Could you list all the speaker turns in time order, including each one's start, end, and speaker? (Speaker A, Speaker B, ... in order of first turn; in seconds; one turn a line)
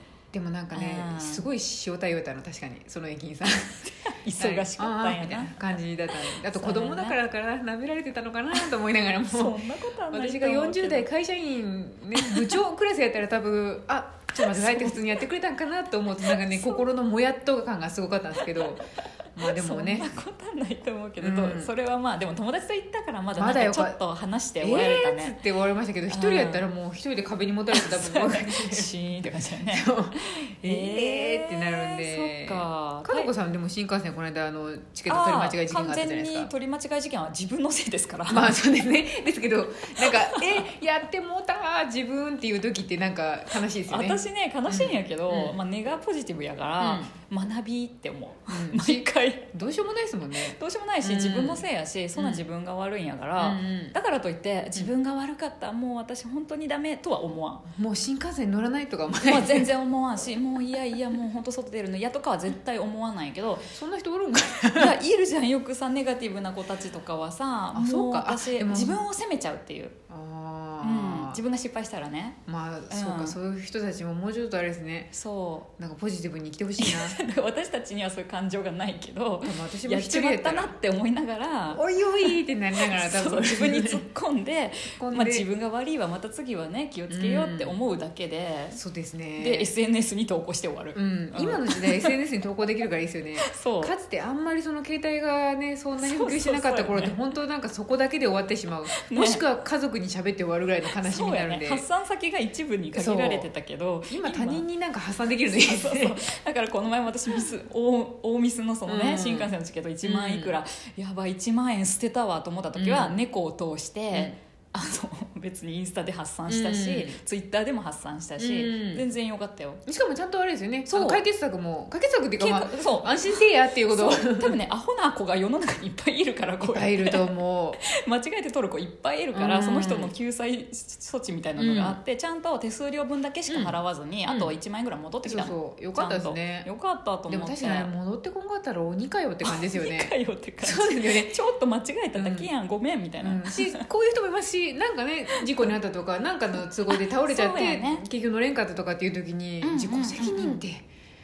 Speaker A: 0.3-3.8
Speaker B: 0.7-1.4
Speaker B: 4.0-5.5
Speaker A: 4.4-9.6
Speaker B: 6.3-7.2
Speaker B: 9.3-11.1
Speaker A: 10.1-20.1
Speaker B: 12.2-12.5
Speaker B: 14.4-15.0
Speaker B: 16.2-16.9
Speaker B: 19.4-25.4
Speaker A: 21.2-21.7
Speaker A: 23.4-24.0
Speaker A: 24.6-36.5
Speaker B: 26.1-26.6
Speaker B: 27.7-33.3
Speaker B: 35.1-38.5
Speaker A: 38.3-45.6
Speaker B: 40.0-40.6
Speaker B: 43.9-49.5
Speaker A: 46.8-47.1
Speaker A: 48.5-52.4
Speaker B: 50.5-57.6
Speaker A: 53.4-54.0
Speaker A: 57.8-59.7
Speaker B: 59.2-63.7
Speaker A: 63.7-64.9
Speaker B: 64.7-70.0
Speaker A: 67.7-69.0
Speaker A: 70.1-71.4
Speaker B: 70.8-72.4
Speaker A: 72.5-75.1
Speaker B: 72.9-73.3
Speaker B: 75.1-75.7
Speaker A: 75.8-77.2
Speaker B: 76.8-88.8
Speaker A: 79.4-80.7
Speaker A: 81.7-84.0
Speaker A: 85.0-85.5
Speaker A: 87.1-87.8
Speaker A: 88.7-89.7
Speaker B: 89.4-92.1
Speaker A: 90.9-101.8
Speaker B: 93.5-93.9
Speaker B: 96.0-97.2
Speaker B: 98.9-99.4
Speaker B: 101.0-104.6
Speaker A: 102.9-103.5
Speaker A: 104.1-106.2
Speaker B: 105.4-119.8
Speaker A: 108.8-110.6
Speaker A: 112.8-113.2
Speaker A: 114.1-114.4
Speaker A: 116.5-117.2
Speaker A: 118.4-119.0
Speaker A: 119.8-124.6
Speaker B: 120.9-121.2
Speaker B: 122.4-127.3
Speaker A: 126.6-127.8
Speaker B: 127.8-137.9
Speaker A: 129.3-130.1
Speaker A: 131.6-132.0
Speaker A: 133.5-133.8
Speaker A: 134.3-134.6
Speaker A: 135.2-136.7
Speaker A: 137.3-141.4
Speaker B: 139.4-143.8
Speaker A: 142.1-142.5
Speaker A: 143.2-150.8
Speaker B: 146.9-148.0
Speaker B: 149.6-150.6